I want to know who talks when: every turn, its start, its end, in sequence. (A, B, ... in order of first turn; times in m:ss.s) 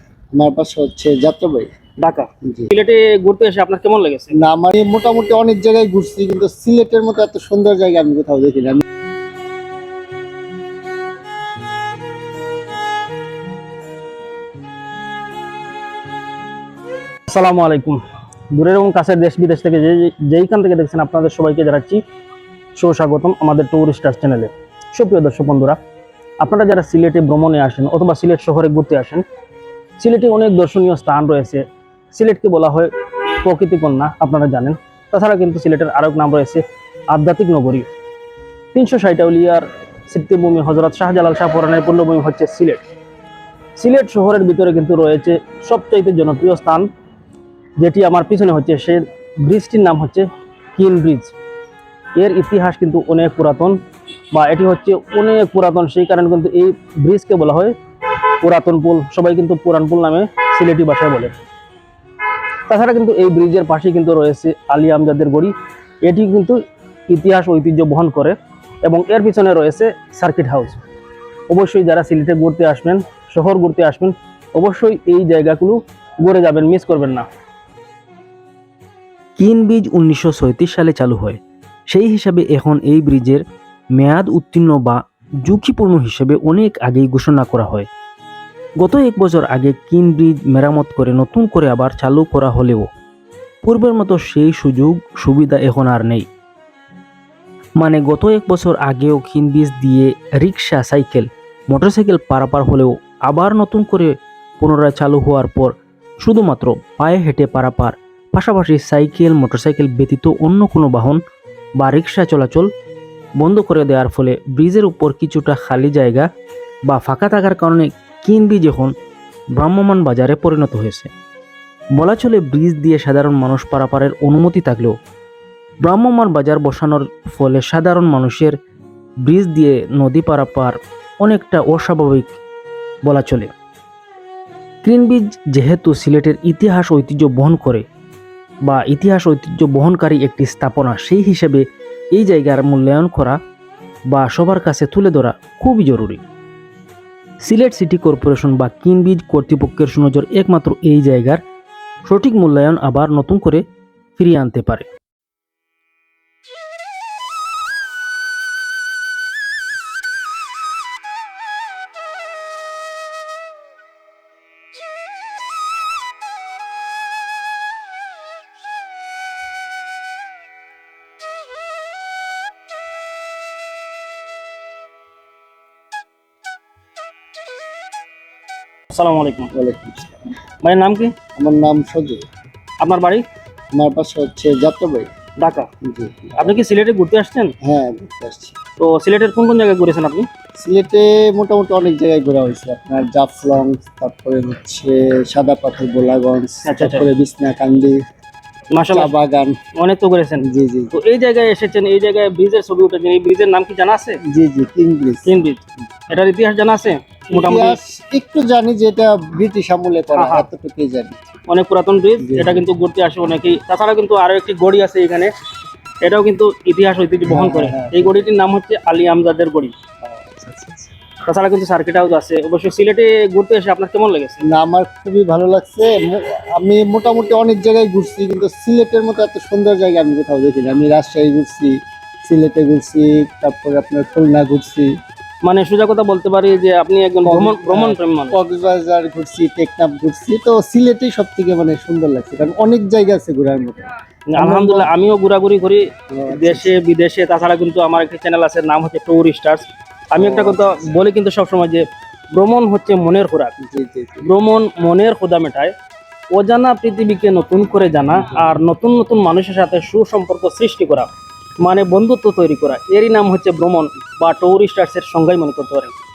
0:00.3-0:01.7 A
0:02.0-0:04.3 B
0:04.4-0:08.8 A
0:17.3-0:18.0 B
0:18.5-0:22.0 B
0:22.7-0:25.8 B
0:26.4-0:29.2 B
0:30.0-0:37.9 B
0:38.7-0:42.8 B
0:43.8-0:46.9 B
0:47.8-0:51.3 B
0:52.2-0:53.8 B
0:54.3-0:57.7 B
0:58.4-1:01.3 B
1:02.7-1:10.8 B
1:11.5-1:17.2 B
1:19.4-1:21.4 C
1:21.9-1:23.4 C
1:24.0-1:27.9 C
1:28.8-1:32.9 C
1:33.6-1:36.2 C
1:37.8-1:51.2 C
1:51.8-1:52.7 C
1:53.4-1:56.2 C
1:56.9-1:58.9 C
1:59.6-2:01.1 C
2:02.0-2:04.9 C
2:05.8-2:08.5 C
2:09.2-2:12.3 C
2:13.0-2:13.5 C
2:14.8-2:17.8 C
2:18.6-2:21.6 C
2:22.1-2:23.4 C
2:24.1-2:26.2 C
2:27.4-2:31.4 C
2:32.0-2:33.6 C
2:34.2-2:34.9 C
2:58.9-2:59.5 B
2:59.5-3:00.2 A
3:00.6-3:01.1 B
3:01.4-3:02.2 A
3:02.8-3:03.2 B
3:03.7-3:05.1 A
3:05.4-3:05.7 B
3:05.8-3:06.5 A
3:06.4-3:07.5 B
3:07.6-3:08.6 A
3:08.8-3:10.3 B
3:10.6-3:18.0 A
3:16.6-3:17.1 B
3:18.7-3:19.1 B
3:18.9-3:19.6 A
3:19.8-3:24.2 B
3:20.5-3:20.9 A
3:24.3-3:25.3 A
3:25.2-3:27.8 B
3:27.3-3:31.2 A
3:30.2-3:30.5 B
3:31.5-3:35.3 B
3:32.2-3:32.6 A
3:36.0-3:39.7 B
3:37.3-3:38.2 A
3:40.0-3:40.7 A
3:41.2-3:44.4 B
3:44.5-3:54.9 A
3:55.4-3:58.4 B
3:57.2-4:04.9 A
4:04.3-4:13.5 B
4:06.1-4:06.7 A
4:10.2-4:10.9 A
4:13.6-4:14.3 A
4:14.2-4:15.7 B
4:16.3-4:21.1 B
4:21.6-4:25.9 B